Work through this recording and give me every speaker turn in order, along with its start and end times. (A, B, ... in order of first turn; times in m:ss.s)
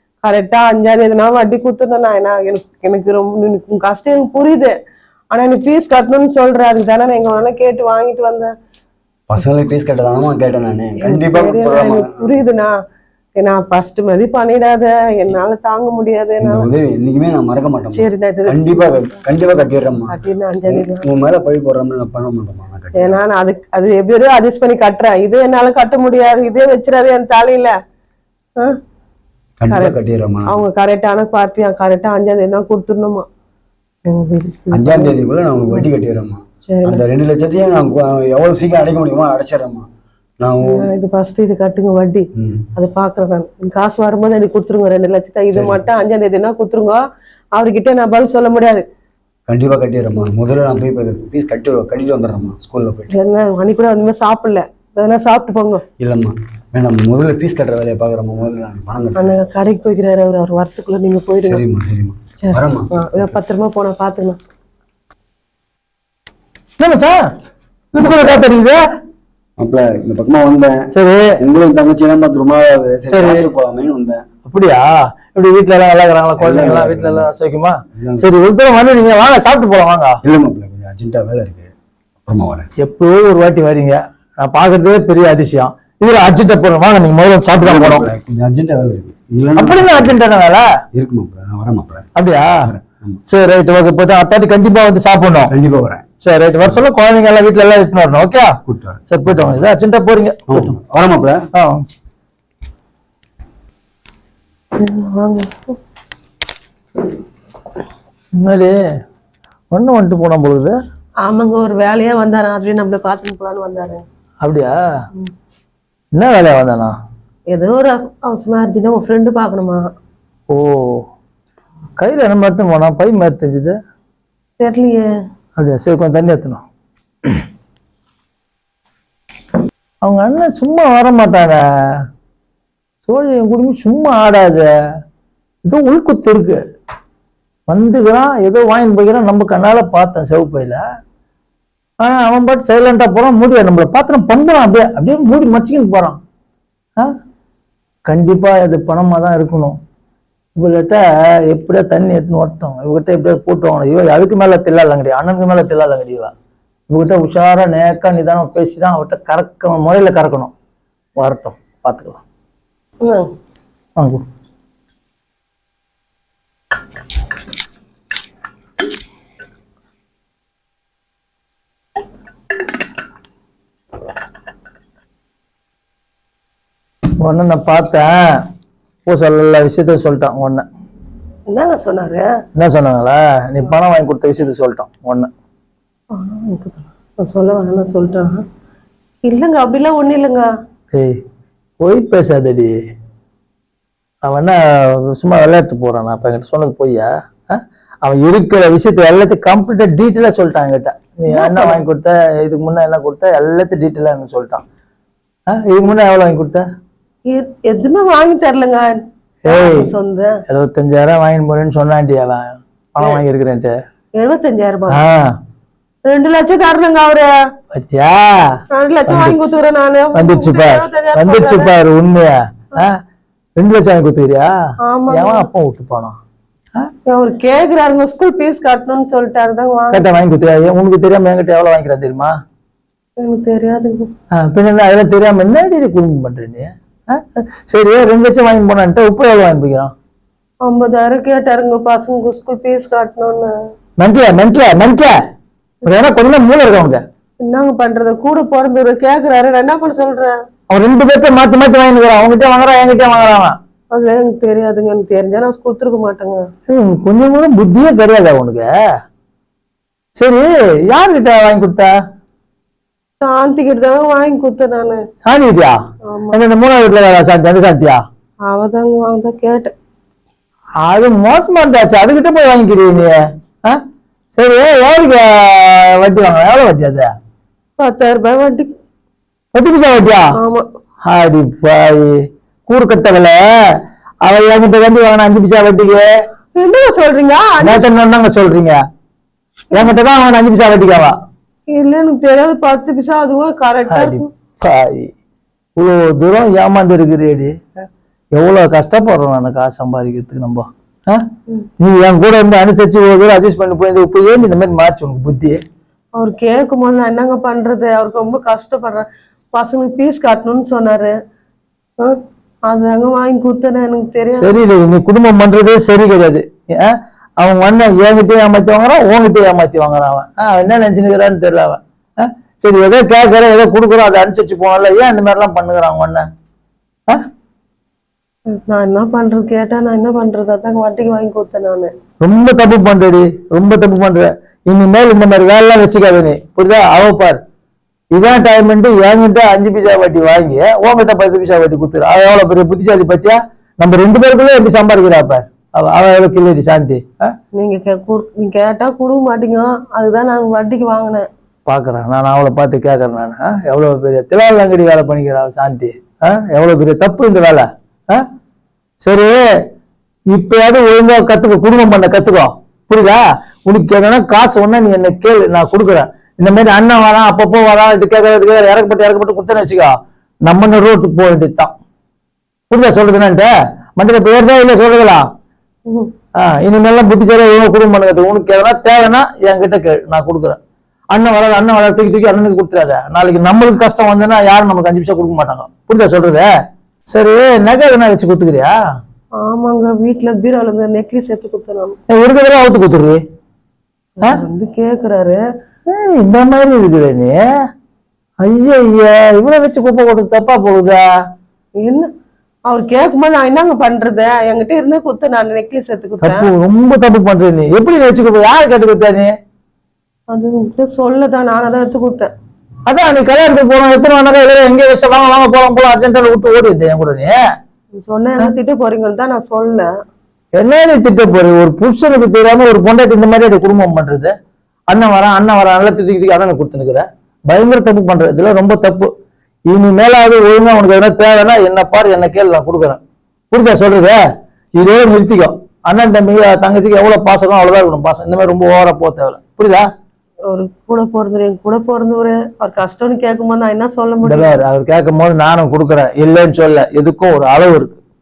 0:00.2-0:04.7 A
0:05.3-0:08.5 A
0:09.3-0:12.2 B
0:11.0-0:12.7 A
0:13.4-0:16.7 A
0:16.4-0:20.1 B
0:17.9-0:19.2 A
0:20.1-0:21.0 A
0:20.7-0:23.2 B
0:23.0-0:27.7 A
0:29.6-0:30.6 B
0:29.7-0:29.9 A
0:30.5-0:33.2 A
0:34.1-0:35.2 A
0:34.7-0:39.8 B
0:36.7-0:37.0 A
0:40.4-0:40.7 B
0:40.6-0:47.0 A
0:42.4-0:42.6 B
0:45.5-0:45.8 B
0:47.6-0:48.8 A
0:49.5-0:53.1 B
0:53.1-0:55.8 A
0:56.0-0:59.4 B
0:59.2-1:01.6 A
1:01.4-1:03.3 B
1:02.4-1:04.4 A
1:06.8-1:07.2 C
1:07.9-1:08.8 C
1:09.6-1:10.9 B
1:10.9-1:11.4 C
1:11.4-1:14.2 B
1:13.1-1:13.5 C
1:14.5-1:20.2 C
1:16.4-1:17.3 B
1:17.9-1:18.3 B
1:20.2-1:21.7 B
1:22.2-1:22.7 B
1:22.8-1:28.1 C
1:27.6-1:30.2 B
1:29.6-1:30.6 C
1:30.9-1:32.0 B
1:32.2-1:32.6 C
1:32.6-1:33.2 B
1:33.3-1:35.5 C
1:35.5-1:36.0 B
1:36.2-1:38.5 C
1:38.7-1:39.6 B
1:39.1-1:40.7 C
1:40.5-1:41.4 B
1:44.8-1:45.8 A
1:48.4-1:48.7 C
1:49.7-1:50.8 C
1:51.2-1:54.0 A
1:54.4-1:54.8 C
1:56.1-1:56.9 C
1:57.5-1:59.8 A
2:00.5-2:01.0 C
2:02.0-2:03.8 C
2:04.6-2:05.0 A
2:05.6-2:06.6 C
2:10.0-2:12.0 C
2:13.0-2:14.6 C
2:15.6-2:16.6 C
2:17.7-2:20.8 C
2:22.0-2:26.2 C
2:28.1-2:29.8 C
2:30.6-2:36.3 C
2:36.9-2:40.5 C
2:41.2-2:42.2 C
2:43.0-2:43.3 A
2:57.2-2:58.1 C
2:59.0-3:00.6 C
3:01.5-3:02.3 A
3:02.6-3:05.3 C
3:06.1-3:08.4 A
3:09.2-3:10.5 A
3:11.8-3:12.7 C
3:14.2-3:14.6 C
3:15.1-3:24.6 C
3:21.2-3:21.8 A
3:25.5-3:26.6 C
3:27.3-3:28.9 A
3:29.4-3:29.9 C
3:29.4-3:30.4 A
3:30.5-3:33.7 C
3:34.2-3:35.0 A
3:34.9-3:35.3 C
3:36.0-3:37.3 A
3:37.7-3:38.6 C
3:38.7-3:41.7 A
3:39.1-3:39.4 C
3:40.1-3:43.0 C
3:43.6-3:44.5 C
3:44.8-3:45.4 A
3:45.1-3:46.2 C
3:47.1-3:50.0 A
3:49.9-3:52.3 C
3:53.2-3:54.1 A
3:54.4-3:59.9 C
4:00.6-4:03.5 A
4:04.0-4:05.1 C
4:05.8-4:07.0 C
4:07.4-4:10.4 A
4:10.7-4:13.6 C
4:13.9-4:16.4 A
4:16.7-4:18.7 C
4:20.2-4:21.9 C
4:23.2-4:25.0 A
4:25.2-4:25.8 C
4:26.1-4:26.4 A
4:26.3-4:28.0 C
4:28.5-4:29.7 A
4:30.8-4:33.8 C
4:34.3-4:37.1 C
4:37.8-4:38.7 A
4:39.5-4:40.3 C
4:40.4-4:40.6 A
4:41.0-4:42.1 C
4:42.7-4:43.4 C
4:44.2-4:46.1 C
4:46.5-4:47.8 A
4:47.6-4:48.8 C
4:49.7-4:51.1 C
4:51.7-4:54.3 A
4:53.9-4:55.1 C
4:55.8-4:57.5 C
4:58.3-5:01.2 C
5:01.8-5:05.6 C
5:06.2-5:11.1 A
5:12.0-5:14.5 A
5:14.3-5:26.2 C
5:28.5-5:31.9 A
5:32.2-5:37.4 C
5:38.1-5:47.3 C
5:47.6-5:51.2 A
5:51.7-5:58.2 C
5:59.0-5:59.4 C
6:00.3-6:09.9 C
6:10.5-6:11.7 C
6:12.7-6:15.2 C
6:16.4-6:20.6 C
6:21.1-6:26.5 C
6:27.1-6:28.7 C
6:29.4-6:32.0 A
6:32.1-6:33.2 C
6:34.2-6:35.4 A
6:35.9-6:37.4 C
6:38.4-6:41.0 C
6:41.8-6:42.1 A
6:42.7-6:46.5 A
6:46.2-6:49.3 C
6:50.3-6:52.3 A
6:52.9-6:57.4 C
6:58.0-6:59.9 A
7:00.5-7:04.3 C
7:04.9-7:09.1 C
7:09.7-7:13.0 C
7:13.5-7:14.2 C
7:14.8-7:19.8 C
7:20.5-7:24.5 A
7:24.2-7:28.0 C